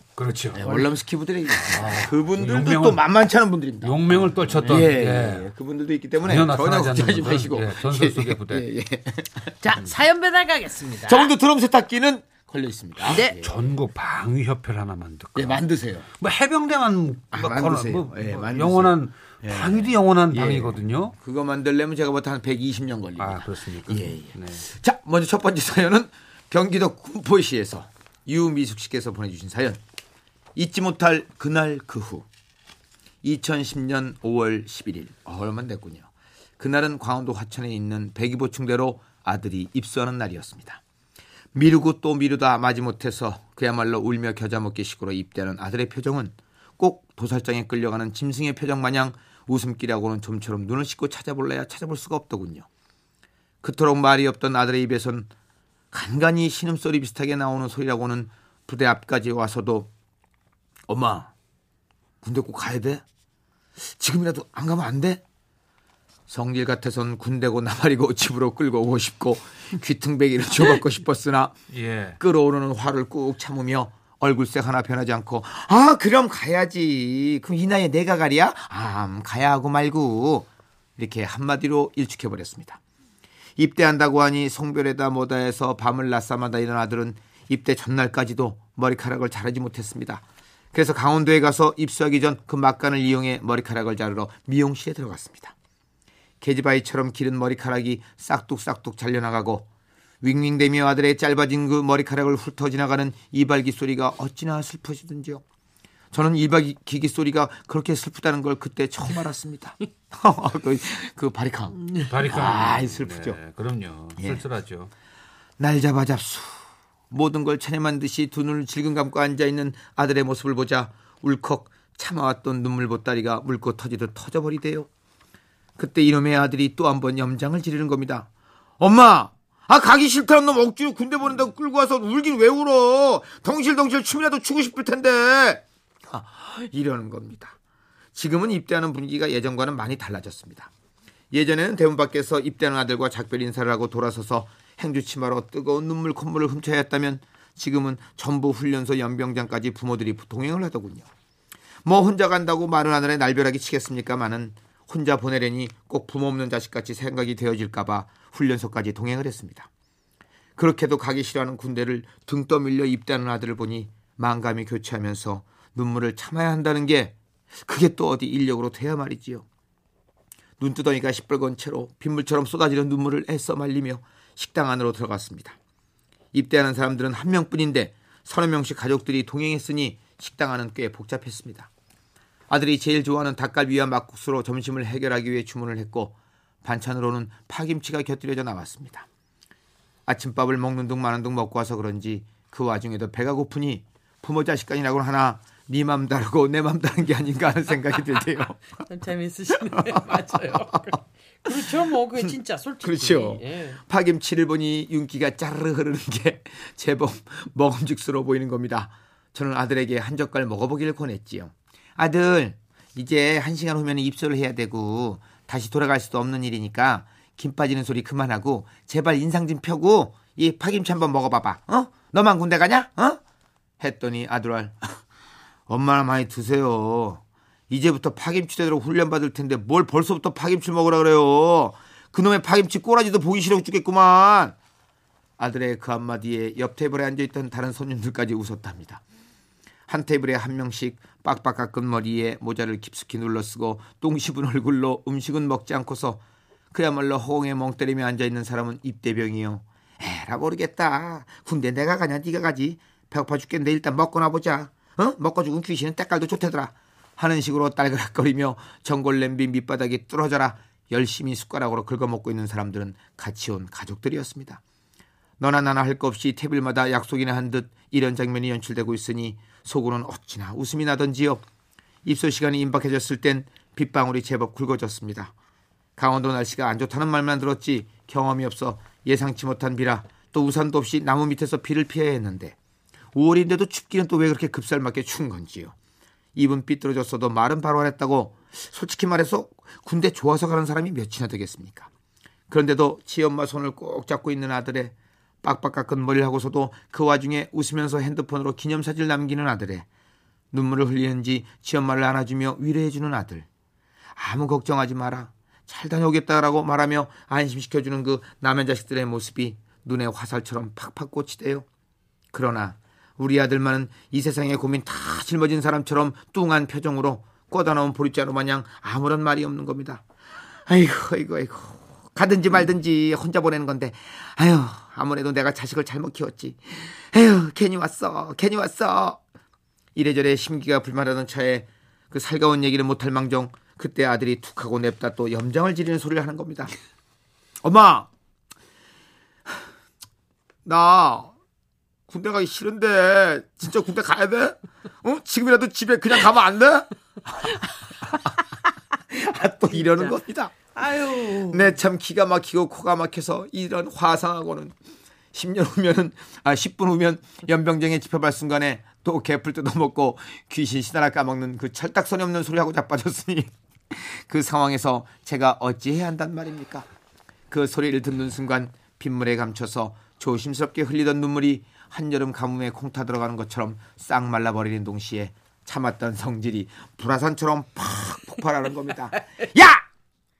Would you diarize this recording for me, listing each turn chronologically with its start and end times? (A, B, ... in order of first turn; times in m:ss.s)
0:00.2-0:00.9 A
0:00.5-0:09.6 B
0:01.6-0:03.0 A
0:03.8-0:05.5 A
0:06.2-0:08.6 A
0:09.6-0:11.3 C
0:11.1-0:13.8 B
0:13.1-0:13.4 C
0:13.1-0:21.1 A
0:15.4-0:16.1 B
0:17.3-0:29.8 B
0:23.2-0:24.6 A
0:30.6-0:32.3 B
0:33.2-0:36.1 B
0:36.6-0:40.8 B
0:41.5-0:52.7 B
0:53.6-0:55.3 B
0:55.9-0:59.9 B
1:00.9-1:01.3 B
1:02.2-1:03.0 B
1:04.0-1:05.2 B
1:06.3-1:11.6 B
1:11.7-1:12.2 A
1:12.2-1:22.8 B
1:23.6-1:35.5 B
1:36.4-1:39.7 B
1:40.2-1:45.4 B
1:46.1-1:53.4 B
1:52.1-1:54.9 A
1:54.2-1:54.4 B
1:55.6-2:04.9 B
2:05.8-2:08.3 B
2:08.8-2:17.6 B
2:18.1-2:20.7 B
2:21.3-2:31.1 B
2:31.8-2:39.7 B
2:40.6-2:49.4 B
2:50.6-2:55.6 B
2:56.3-3:01.7 B
3:02.5-3:09.1 B
3:10.1-3:18.9 B
3:18.9-3:23.8 C
3:19.7-3:20.8 B
3:22.8-3:43.2 B
3:43.8-3:45.0 B
3:45.7-3:54.6 B
3:55.4-3:59.0 B
3:59.9-4:06.2 B
4:06.7-4:24.6 B
4:25.4-4:31.4 B
4:32.0-4:35.3 B
4:36.0-4:42.6 B
4:43.1-4:45.7 B
4:46.4-4:51.9 B
4:52.5-4:59.9 B
5:00.5-5:03.5 B
5:04.2-5:11.7 B
5:12.3-5:20.0 B
5:20.7-5:29.2 B
5:30.0-5:36.7 B
5:37.6-5:38.1 B
5:40.6-5:41.3 B
5:42.1-5:48.4 B
5:49.1-5:50.6 B
5:49.8-5:50.2 C
5:50.7-5:51.8 C
5:51.5-5:54.8 B
5:55.3-6:06.9 B
6:07.5-6:19.8 B